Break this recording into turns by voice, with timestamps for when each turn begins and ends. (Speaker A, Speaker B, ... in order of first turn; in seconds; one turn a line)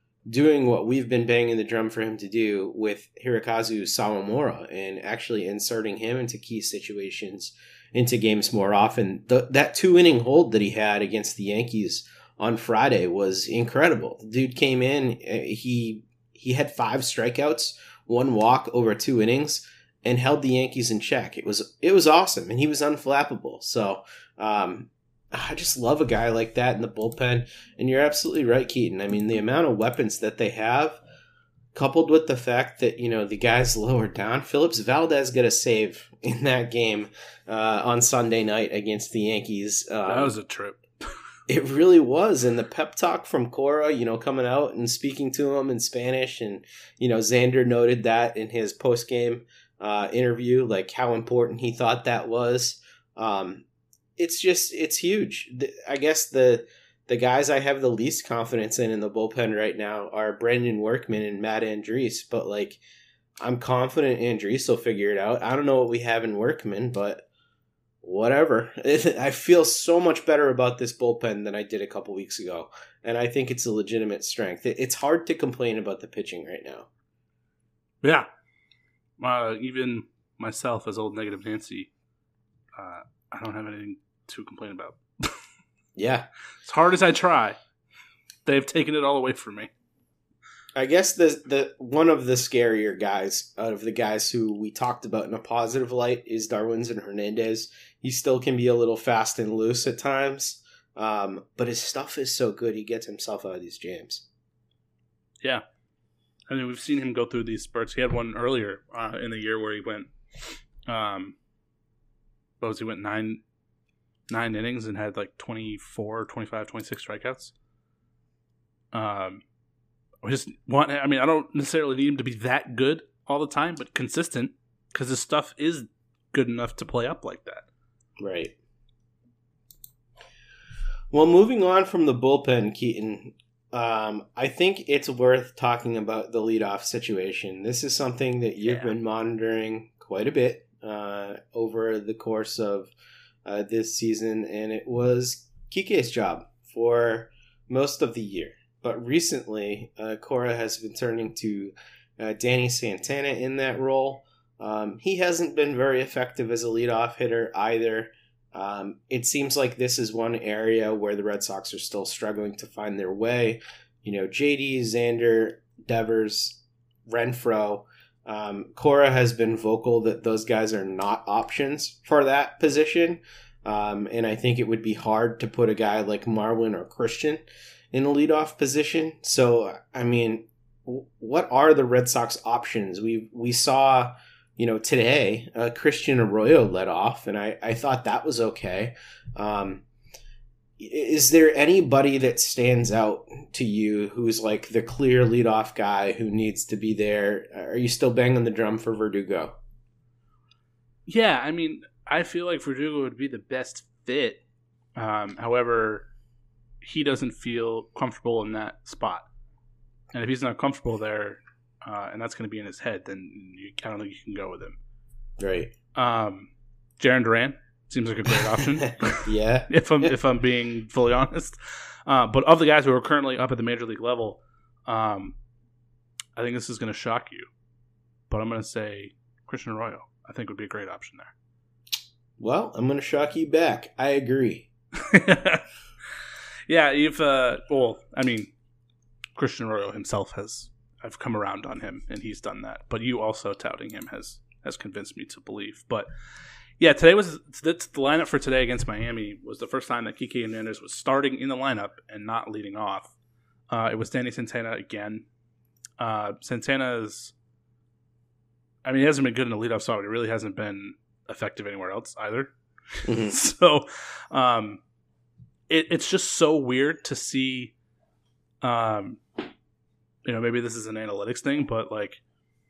Speaker A: 0.2-31.0
Speaker A: 31.7-40.3
Speaker B: 40.1-40.8
Speaker A: 41.5-53.6
Speaker A: 54.2-62.8
Speaker A: 63.4-67.2
Speaker A: 68.0-76.9
Speaker B: 78.0-78.3
Speaker B: 79.2-81.9
Speaker B: 82.8-85.3
Speaker A: 86.0-86.3
Speaker B: 86.6-87.6
Speaker B: 88.5-89.7
Speaker A: 90.7-104.2
Speaker B: 106.5-110.1
Speaker B: 110.8-111.3
Speaker B: 112.6-113.4
Speaker B: 114.3-117.5
Speaker B: 118.9-119.4
Speaker B: 120.2-127.7
Speaker A: 128.2-128.6
Speaker A: 131.1-142.9
Speaker B: 138.6-138.9
Speaker A: 143.4-189.8
Speaker A: 190.8-199.6
Speaker B: 201.1-204.4
Speaker B: 204.9-206.1
Speaker B: 206.8-209.2
Speaker B: 210.1-214.8
Speaker A: 215.4-215.7
Speaker B: 215.9-225.3
Speaker A: 218.6-220.1
Speaker B: 226.3-227.5
Speaker B: 228.3-231.3
Speaker A: 232.4-234.7
Speaker B: 234.9-235.6
Speaker B: 236.7-238.5
Speaker B: 239.3-246.1
Speaker B: 246.8-253.1
Speaker B: 253.7-255.2
Speaker B: 256.0-257.3
Speaker B: 258.8-264.8
Speaker A: 263.0-263.4
Speaker B: 265.7-267.7
Speaker B: 268.6-269.2
Speaker B: 270.2-272.2